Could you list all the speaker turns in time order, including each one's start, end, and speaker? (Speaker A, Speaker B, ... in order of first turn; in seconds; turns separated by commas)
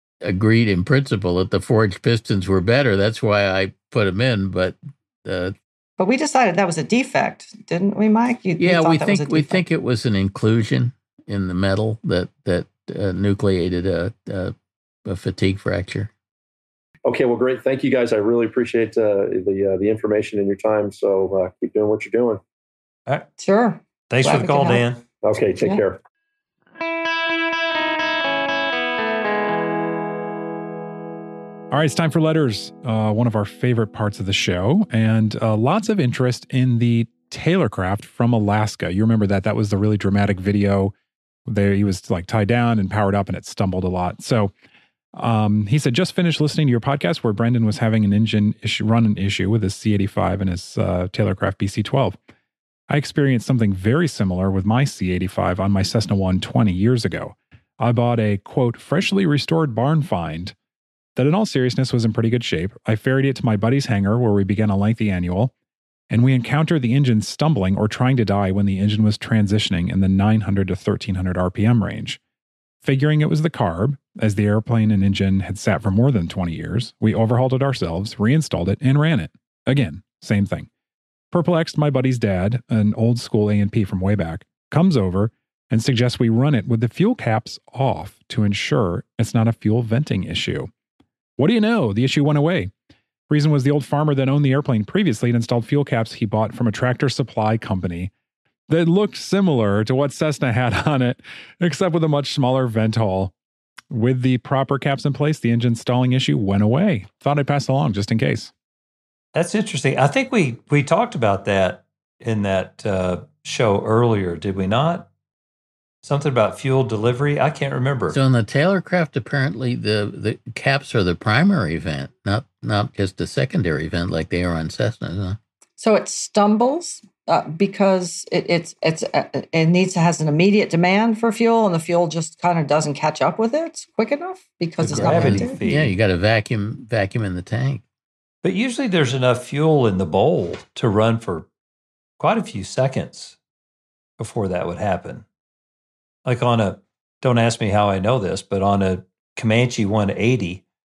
Speaker A: 0.2-5.5, Speaker B: 6.0-9.6, Speaker A: 8.6-14.6, Speaker A: 15.1-16.1, Speaker C: 17.1-22.4, Speaker B: 23.4-24.8, Speaker D: 24.1-25.0, Speaker C: 25.2-26.0, Speaker E: 31.7-40.9, Speaker E: 41.5-44.5, Speaker E: 45.1-52.2, Speaker E: 52.9-60.5, Speaker E: 61.2-65.5, Speaker E: 66.1-72.2, Speaker E: 72.8-80.7, Speaker E: 81.3-90.7, Speaker E: 91.4-92.7, Speaker E: 93.3-98.1, Speaker E: 98.7-103.3, Speaker E: 103.9-108.5, Speaker D: 109.3-115.1, Speaker D: 116.0-118.2, Speaker A: 118.1-125.4, Speaker B: 125.8-135.6, Speaker D: 134.8-135.9, Speaker A: 134.9-137.8, Speaker D: 138.4-141.5, Speaker D: 142.2-143.4, Speaker D: 144.2-145.2, Speaker D: 146.2-150.6